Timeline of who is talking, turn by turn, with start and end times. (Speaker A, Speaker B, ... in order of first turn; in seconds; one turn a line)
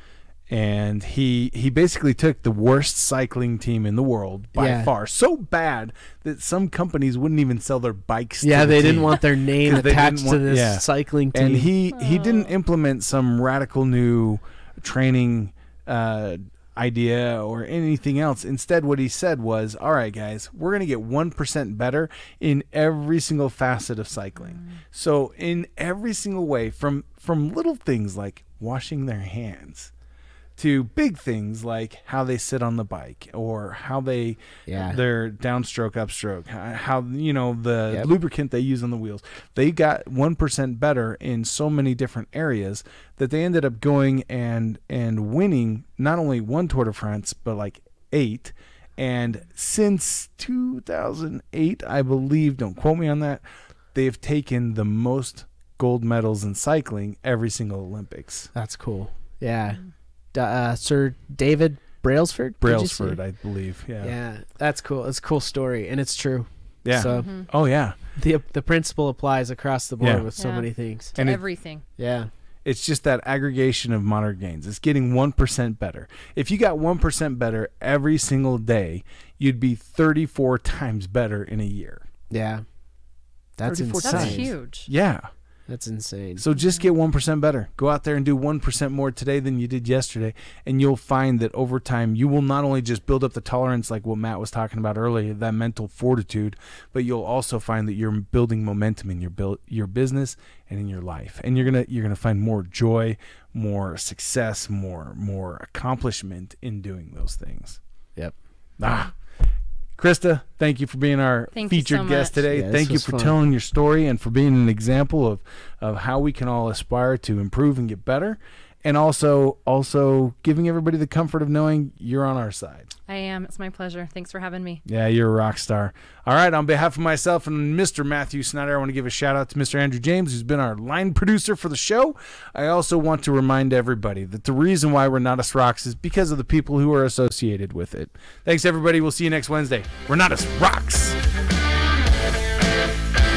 Speaker A: 0.5-29.9
Speaker B: 4.5-4.9
Speaker B: 8.4-11.7
Speaker C: 11.9-12.5
Speaker C: 24.6-24.8
Speaker A: 30.6-58.5
Speaker B: 34.7-35.0
Speaker B: 58.5-59.8
Speaker B: 60.3-63.2
Speaker A: 62.6-64.1
Speaker B: 64.0-67.3
Speaker A: 66.8-68.0
Speaker C: 67.0-67.5
Speaker B: 68.2-71.2
Speaker A: 70.0-70.3
Speaker C: 70.4-71.8
Speaker A: 71.2-71.4
Speaker B: 72.0-72.3
Speaker A: 72.6-82.0
Speaker B: 82.3-82.6
Speaker B: 83.6-84.5
Speaker A: 83.6-85.3
Speaker C: 84.0-84.9
Speaker B: 85.7-86.4
Speaker A: 86.4-107.8
Speaker C: 86.5-86.9
Speaker A: 108.8-109.1
Speaker A: 110.0-122.9
Speaker C: 111.5-112.4
Speaker B: 112.5-113.4
Speaker C: 123.1-124.8
Speaker A: 124.9-141.2